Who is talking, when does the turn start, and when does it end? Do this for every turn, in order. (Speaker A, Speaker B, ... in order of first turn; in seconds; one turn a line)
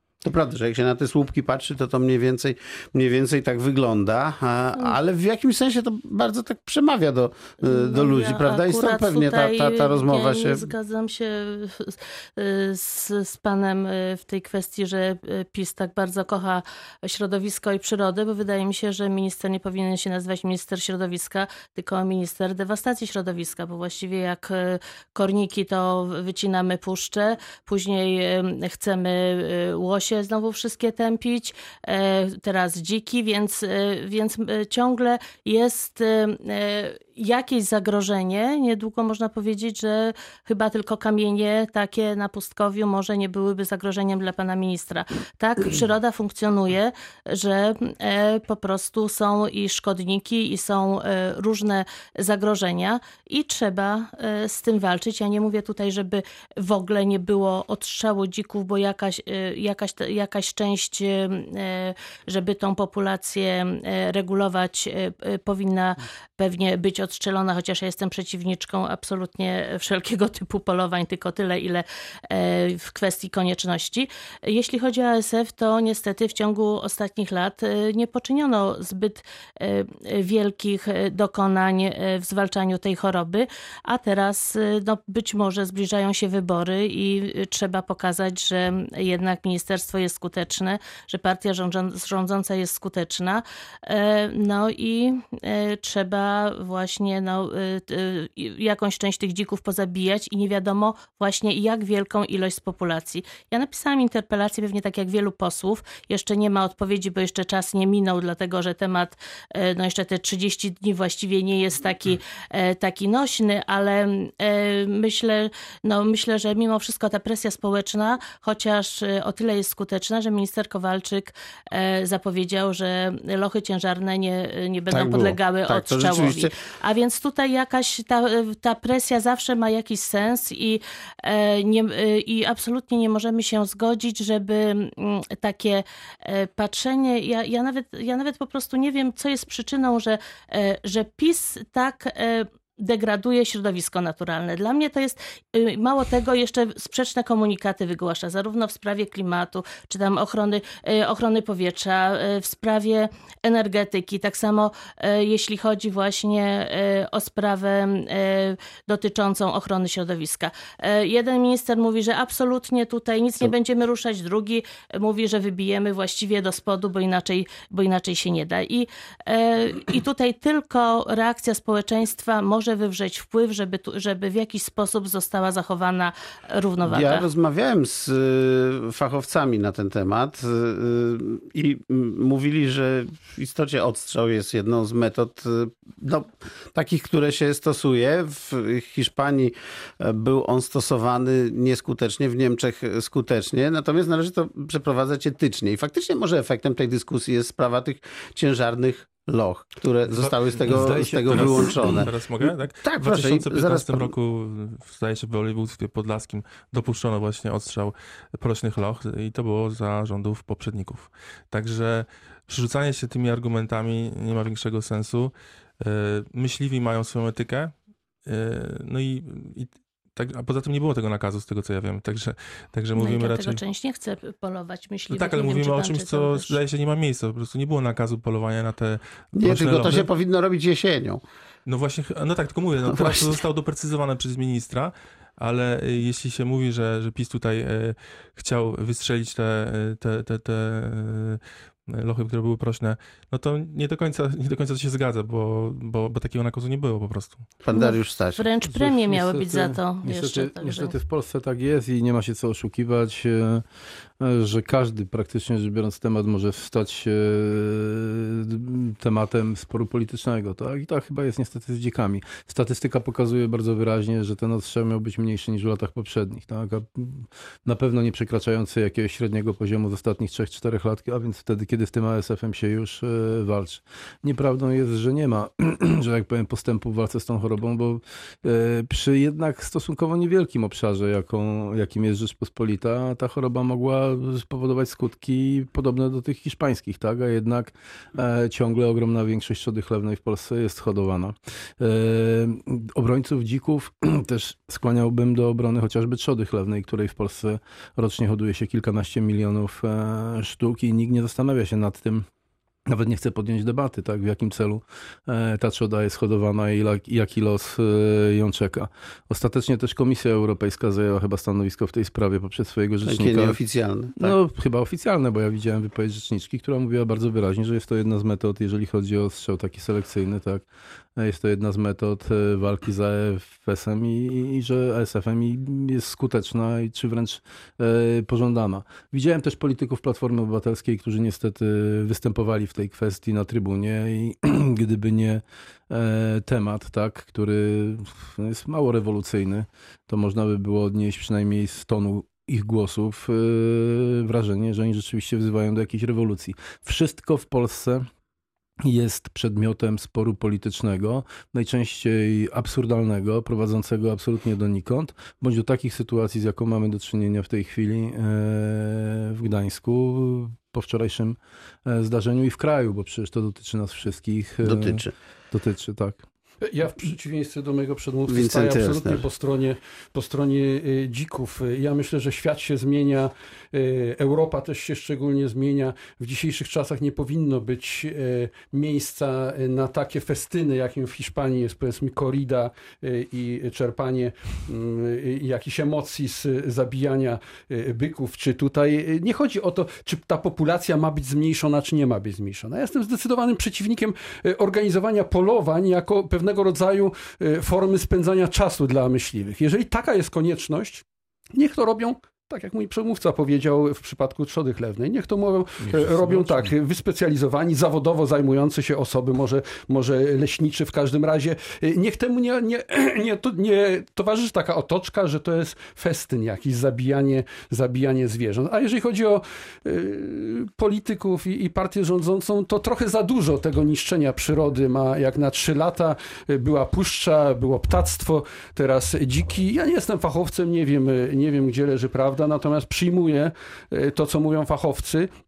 Speaker A: 0.2-10.7
Speaker B: 7.6-177.3
Speaker A: 124.9-126.5
Speaker A: 176.8-204.1
Speaker C: 200.2-200.8
Speaker D: 200.2-202.0
Speaker C: 201.3-217.7
Speaker C: 218.2-223.6
Speaker B: 222.9-226.6
Speaker C: 225.1-230.1
Speaker A: 229.3-231.2
Speaker C: 231.7-247.4
Speaker A: 232.9-233.3
Speaker A: 247.6-248.4
Speaker B: 247.7-250.9
Speaker D: 248.7-253.6
Speaker D: 254.2-302.2
Speaker D: 302.9-313.6
Speaker A: 313.0-314.4
Speaker D: 314.2-320.6
Speaker D: 321.2-348.0
Speaker D: 348.8-366.2
Speaker A: 364.6-365.1
Speaker E: 366.6-435.3
Speaker A: 368.3-369.2
Speaker D: 405.8-406.7